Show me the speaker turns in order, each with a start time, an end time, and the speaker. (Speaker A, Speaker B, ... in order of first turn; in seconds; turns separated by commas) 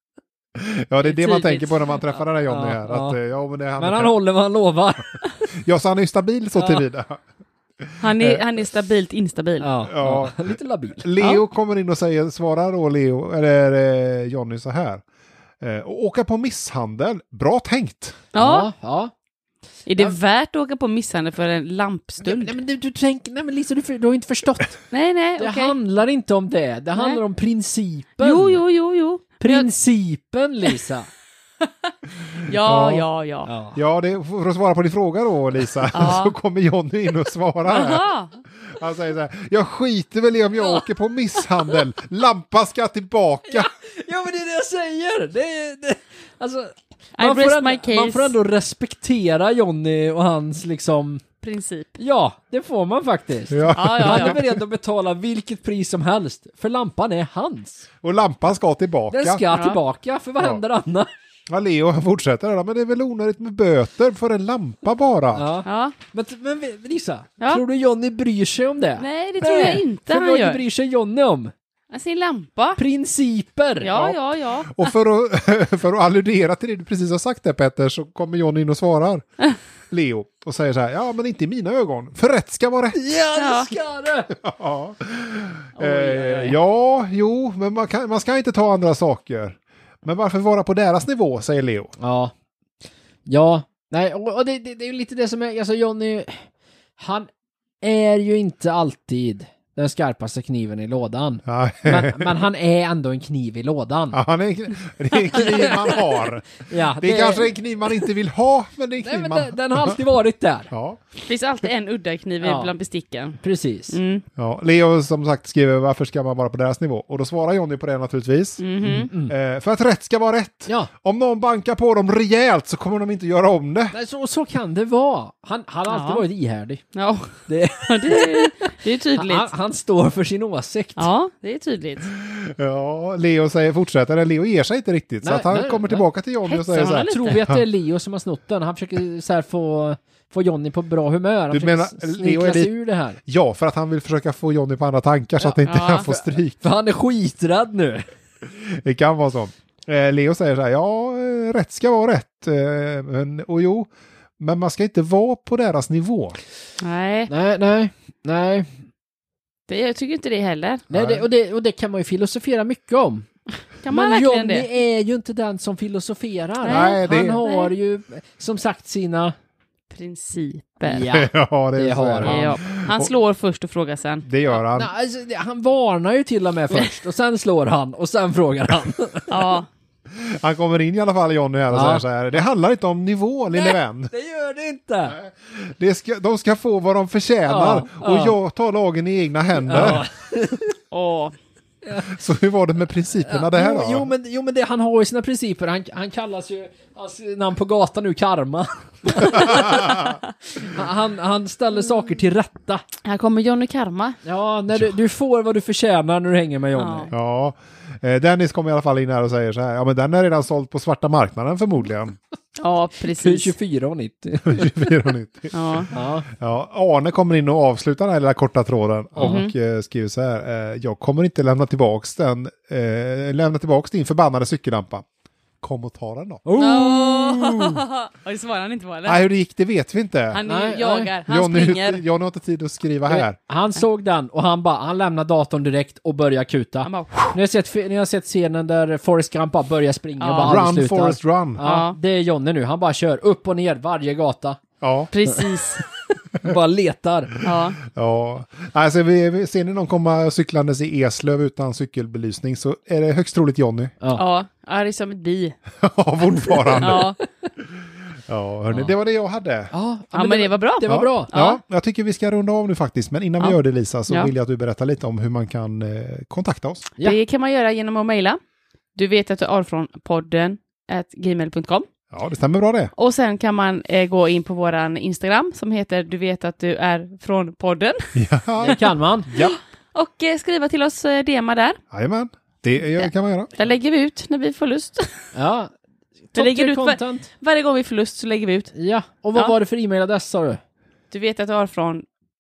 Speaker A: 0.6-4.2, Speaker B: 1.0-1.8, Speaker C: 2.5-3.2, Speaker C: 3.8-5.2, Speaker A: 5.5-7.2, Speaker C: 6.5-6.8, Speaker A: 7.8-8.4, Speaker B: 8.0-9.7, Speaker C: 9.6-11.1, Speaker A: 9.8-15.0, Speaker A: 15.6-18.2, Speaker B: 18.3-18.7, Speaker C: 18.4-19.1, Speaker B: 19.9-22.6, Speaker C: 22.2-24.8, Speaker B: 24.9-25.8, Speaker C: 25.4-28.6, Speaker B: 28.2-29.7, Speaker C: 29.4-31.1, Speaker B: 32.5-33.5, Speaker A: 32.5-33.1, Speaker C: 33.5-33.8, Speaker A: 33.8-43.7, Speaker B: 35.9-36.3, Speaker B: 37.7-38.3, Speaker C: 43.5-51.2, Speaker B: 47.2-48.4, Speaker B: 51.4-52.0, Speaker C: 52.0-57.9, Speaker A: 53.5-54.6, Speaker B: 53.7-54.4, Speaker A: 58.0-59.4, Speaker C: 59.1-61.1, Speaker B: 59.5-59.8, Speaker A: 61.5-65.5, Speaker C: 65.3-71.5, Speaker B: 65.7-66.0, Speaker B: 69.0-70.6, Speaker B: 71.9-72.8, Speaker C: 72.8-74.0, Speaker B: 73.8-74.9, Speaker A: 74.7-79.2, Speaker A: 79.9-83.2, Speaker C: 82.9-84.3, Speaker B: 83.3-83.7, Speaker A: 84.3-91.9, Speaker B: 85.8-86.6, Speaker C: 92.0-92.3, Speaker C: 93.3-97.3, Speaker C: 97.8-104.2, Speaker A: 101.5-102.4, Speaker A: 104.1-110.0, Speaker C: 105.4-105.8, Speaker C: 106.7-107.5, Speaker C: 109.0-110.7, Speaker A: 110.7-111.0, Speaker B: 111.3-113.4, Speaker C: 112.4-112.7, Speaker C: 113.4-114.0, Speaker B: 113.9-114.2, Speaker A: 114.4-123.9, Speaker B: 118.6-119.1, Speaker C: 119.1-119.3, Speaker C: 123.9-126.8, Speaker B: 125.9-126.2, Speaker B: 126.9-129.5, Speaker C: 127.5-131.1, Speaker B: 131.0-132.1, Speaker A: 132.1-137.6, Speaker C: 135.2-136.1, Speaker B: 136.5-137.5, Speaker C: 136.9-143.2, Speaker A: 141.5-142.7, Speaker A: 143.3-146.6, Speaker C: 145.5-148.1, Speaker B: 145.6-146.1, Speaker A: 148.4-156.4, Speaker B: 156.8-157.3, Speaker C: 157.3-158.7, Speaker B: 159.7-160.8, Speaker C: 160.9-163.3, Speaker A: 160.9-161.2, Speaker B: 163.8-164.7, Speaker C: 163.9-169.3, Speaker B: 166.6-167.7, Speaker A: 166.7-167.4, Speaker B: 169.9-171.1, Speaker C: 170.8-172.6, Speaker A: 171.1-173.1, Speaker B: 172.2-174.3, Speaker A: 174.2-174.9, Speaker C: 174.7-179.6, Speaker B: 179.3-179.7, Speaker A: 180.1-184.1, Speaker C: 181.7-182.0, Speaker C: 183.5-185.2, Speaker A: 185.1-190.1, Speaker C: 187.5-188.3, Speaker C: 189.6-190.8, Speaker B: 190.9-191.4, Speaker C: 191.8-192.1, Speaker A: 192.1-194.1, Speaker C: 193.3-202.8, Speaker B: 203.0-204.2, Speaker C: 204.2-207.1, Speaker B: 206.8-207.1, Speaker A: 207.1-212.2, Speaker B: 212.6-213.5, Speaker C: 213.0-214.7, Speaker A: 214.4-215.5, Speaker B: 215.5-215.9, Speaker C: 215.9-216.3, Speaker A: 216.3-225.1, Speaker C: 219.2-219.4, Speaker B: 219.2-219.5, Speaker A: 225.6-226.4, Speaker C: 226.5-227.8, Speaker B: 226.6-229.2, Speaker A: 229.1-230.4, Speaker B: 230.3-232.0, Speaker C: 230.5-231.1, Speaker A: 231.3-233.4, Speaker C: 233.1-244.6, Speaker B: 236.8-237.4, Speaker B: 240.2-240.6, Speaker A: 240.4-241.6, Speaker B: 241.6-241.9, Speaker A: 244.8-245.1, Speaker B: 245.1-245.8, Speaker C: 246.4-247.4, Speaker B: 247.4-247.8, Speaker A: 247.8-253.9, Speaker B: 254.1-255.6, Speaker A: 255.8-257.1, Speaker C: 256.7-257.5, Speaker B: 256.8-257.2, Speaker A: 257.8-259.7, Speaker C: 259.7-261.3, Speaker B: 260.1-261.6, Speaker A: 260.9-266.9, Speaker B: 263.4-264.3, Speaker B: 267.0-268.4, Speaker B: 268.9-271.9, Speaker A: 272.1-272.9, Speaker B: 273.0-278.1, Speaker A: 278.1-279.6, Speaker C: 278.6-279.3, Speaker B: 279.3-281.8, Speaker A: 281.9-283.5, Speaker B: 283.0-285.1, Speaker C: 285.3-285.7, Speaker C: 286.3-287.3, Speaker B: 286.4-288.7, Speaker C: 288.8-290.6, Speaker B: 291.1-292.1